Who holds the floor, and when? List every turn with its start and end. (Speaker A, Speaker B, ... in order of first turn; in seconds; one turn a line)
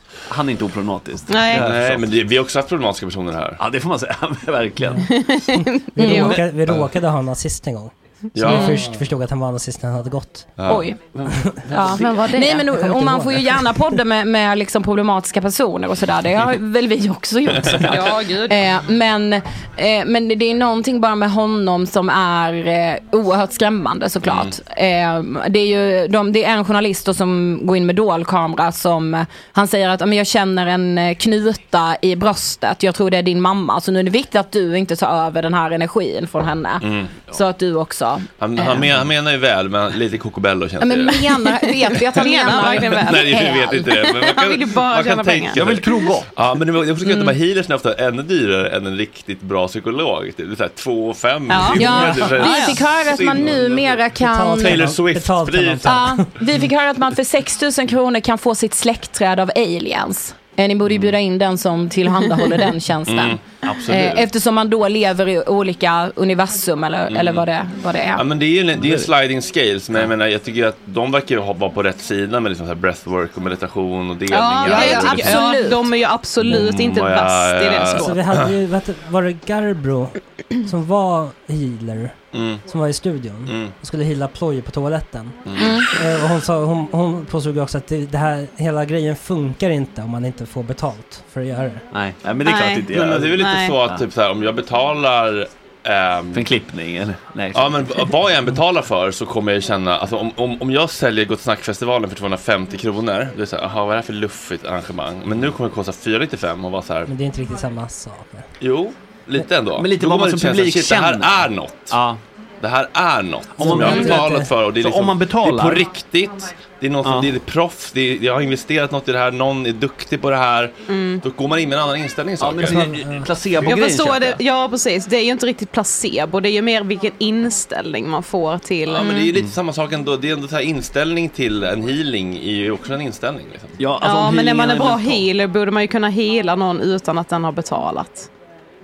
Speaker A: 0.3-2.1
Speaker B: 1.3-1.6
Speaker C: 1.5-3.6
Speaker A: 3.6-5.2
Speaker B: 5.0-6.4
Speaker D: 6.0-10.6
Speaker E: 6.0-6.4
Speaker C: 8.3-8.8
Speaker E: 8.4-8.8
Speaker C: 10.6-10.9
Speaker E: 10.7-11.1
Speaker A: 11.1-12.3
Speaker D: 11.4-13.7
Speaker E: 11.7-38.9
Speaker C: 17.6-18.0
Speaker B: 17.8-18.6
Speaker C: 24.2-24.6
Speaker C: 36.8-37.2
Speaker C: 38.4-56.0
Speaker E: 40.8-44.0
Speaker B: 42.1-43.3
Speaker B: 44.0-45.6
Speaker A: 45.5-46.3
Speaker E: 47.0-47.4
Speaker B: 51.5-52.8
Speaker E: 51.6-54.9
Speaker D: 54.1-56.6
Speaker E: 55.8-68.2
Speaker C: 63.0-64.3
Speaker C: 67.1-67.5
Speaker C: 68.1-75.5
Speaker A: 68.8-69.1
Speaker B: 74.3-78.2
Speaker E: 74.6-75.9
Speaker C: 76.4-78.5
Speaker D: 78.0-82.1
Speaker C: 82.3-82.6
Speaker D: 82.7-91.8
Speaker C: 83.5-83.7
Speaker C: 85.5-85.8
Speaker E: 85.6-85.9
Speaker A: 91.9-94.0
Speaker B: 92.4-93.8
Speaker C: 92.9-96.5
Speaker A: 96.3-98.1
Speaker C: 97.5-107.1
Speaker D: 107.1-108.5
Speaker C: 108.6-112.0
Speaker A: 109.7-112.2
Speaker C: 112.6-122.8
Speaker A: 113.6-115.9
Speaker A: 117.0-117.3
Speaker B: 120.9-121.2
Speaker A: 122.4-124.4
Speaker D: 122.7-123.3
Speaker B: 123.6-129.3
Speaker C: 128.8-133.8
Speaker A: 133.8-135.3
Speaker B: 134.0-138.3